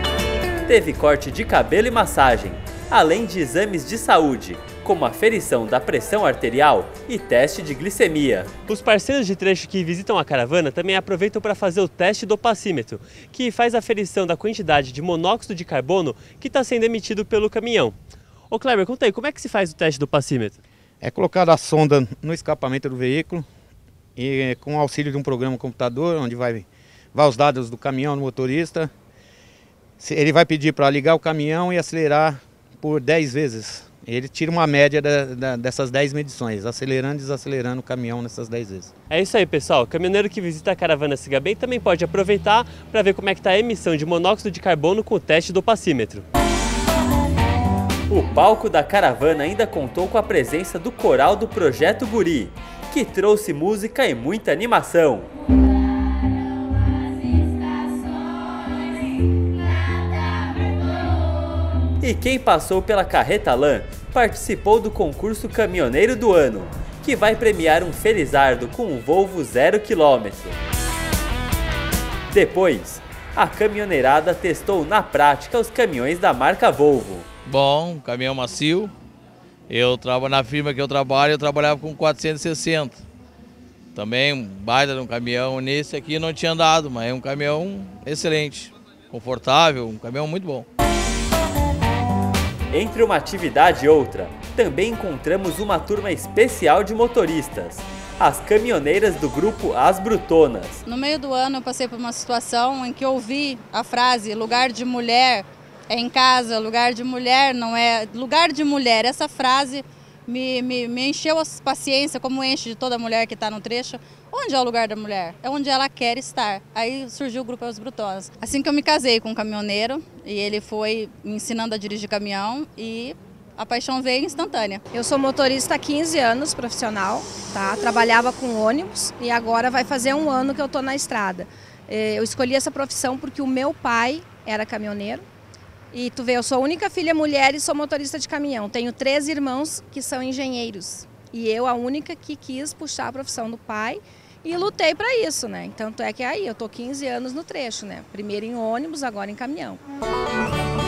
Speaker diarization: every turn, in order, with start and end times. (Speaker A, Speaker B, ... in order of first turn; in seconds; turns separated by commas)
Speaker A: 0.7-8.6, Speaker B: 8.7-18.0, Speaker B: 18.5-20.6, Speaker C: 21.0-23.5, Speaker C: 24.2-28.9, Speaker C: 30.0-38.9, Speaker B: 39.1-46.3, Speaker A: 48.1-55.3, Speaker A: 62.0-70.6, Speaker A: 72.3-77.3, Speaker D: 77.5-78.9, Speaker D: 79.7-83.0, Speaker D: 83.9-90.7, Speaker A: 92.7-100.8, Speaker E: 100.9-124.8, Speaker F: 124.9-135.3, Speaker F: 135.9-149.8